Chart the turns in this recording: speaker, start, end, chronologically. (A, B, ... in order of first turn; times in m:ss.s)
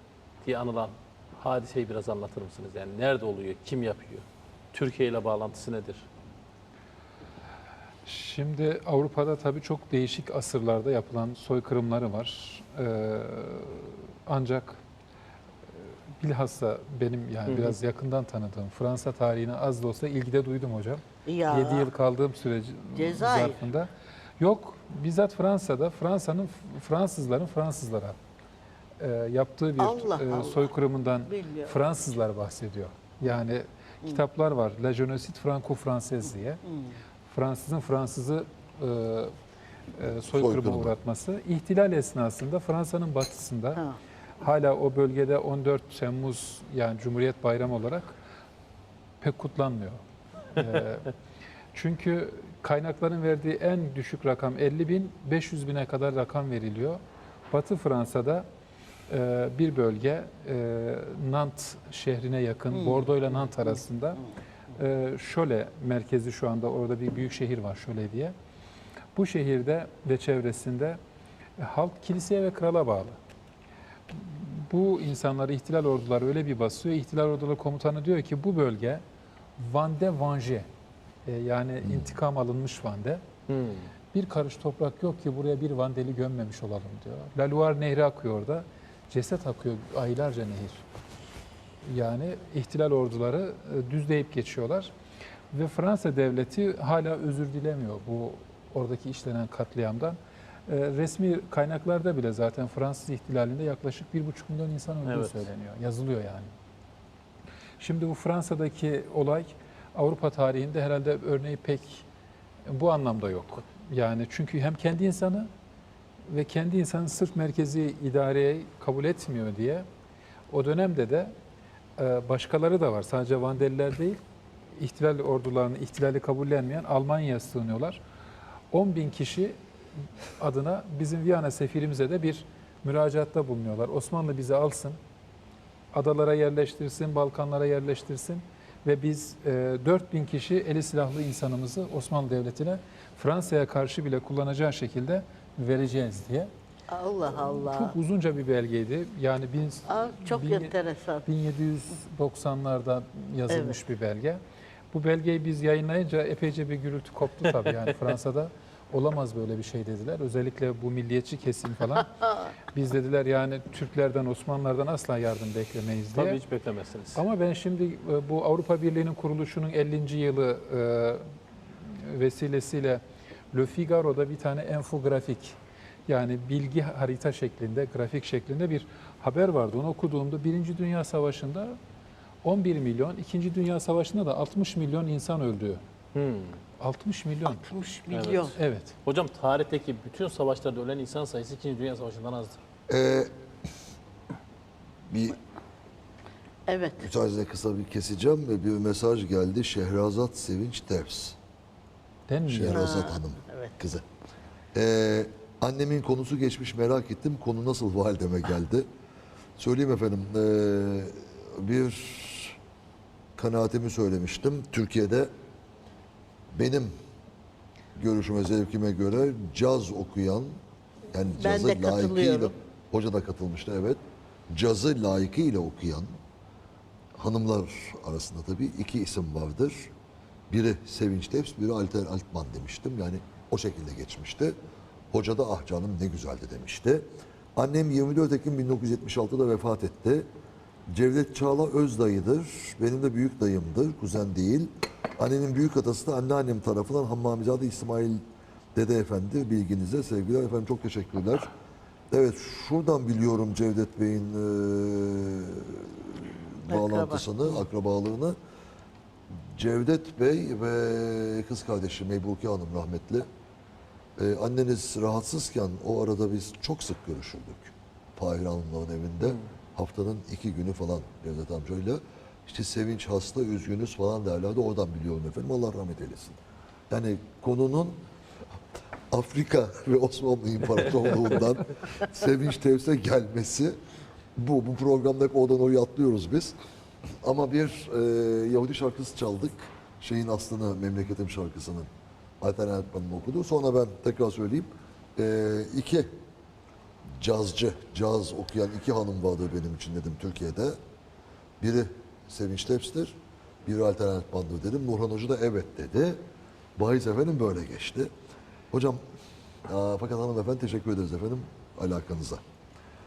0:00.4-0:06.0 A
0:08.0-0:14.8 B
0:16.2-0:28.2 B
0:17.5-0:17.8 A
0:21.2-0:21.9 C
0:22.9-0:23.6 C
0:29.0-0:36.6 B
0:29.8-0:30.7 C
0:31.3-0:31.7 C
0:36.7-0:36.9 C
0:37.3-0:39.3 B
0:39.9-0:43.8 B
0:40.3-0:41.0 D
0:44.4-0:48.1 B
0:49.2-0:50.0 B
0:50.5-0:51.1 B
0:51.7-0:58.4 B
0:59.1-1:08.3 B
1:09.1-1:11.0 B
1:11.6-1:13.2 B
1:14.1-1:19.0 B
1:19.6-1:20.7 B
1:21.2-1:23.2 B
1:21.8-1:22.2 D
1:23.5-1:23.9 A
1:24.1-1:30.8 B
1:31.8-1:34.9 B
1:35.5-1:46.5 B
1:45.0-1:45.4 A
1:47.8-1:52.0 B
1:52.7-1:55.5 B
1:56.3-1:59.8 B
2:00.5-2:01.3 B
2:02.0-2:04.2 B
2:04.8-2:08.0 B
2:08.7-2:09.6 B
2:10.4-2:15.0 B
2:15.9-2:26.5 B
2:26.9-2:28.0 C
2:27.3-2:46.4 B
2:29.9-2:31.3 C
2:33.5-2:33.8 C
2:46.1-2:47.2 A
2:47.1-2:51.2 B
2:51.8-3:01.8 B
3:02.4-3:05.8 B
3:06.1-3:06.6 A
3:06.8-3:07.7 B
3:07.4-3:08.5 C
3:08.1-3:12.6 A
3:08.6-3:08.9 B
3:12.9-3:13.3 D
3:15.1-3:15.4 D
3:16.7-3:17.1 C
3:17.0-3:21.4 D
3:22.3-3:23.0 B
3:22.5-3:24.0 D
3:22.7-3:23.7 C
3:24.7-3:28.9 D
3:29.6-3:32.6 D
3:33.4-3:35.3 D
3:36.5-3:36.9 D
3:38.0-3:40.5 D
3:41.1-3:46.2 D
3:41.4-3:42.5 C
3:47.2-3:49.9 D
3:50.5-3:54.6 D
3:55.1-3:57.0 D
3:57.6-4:00.3 D
4:00.9-4:08.2 D
4:08.7-4:11.5 D
4:12.1-4:18.3 D
4:16.7-4:17.4 C
4:19.5-4:23.3 D
4:24.2-4:36.4 D
4:36.9-4:38.0 D
4:39.1-4:43.8 D
4:44.4-4:46.5 D
4:47.2-4:51.9 D
4:52.4-4:56.1 D
4:57.2-5:00.8 D
5:01.6-5:06.2 D
5:06.8-5:08.1 D
5:08.7-5:09.0 D
5:09.6-5:12.4 D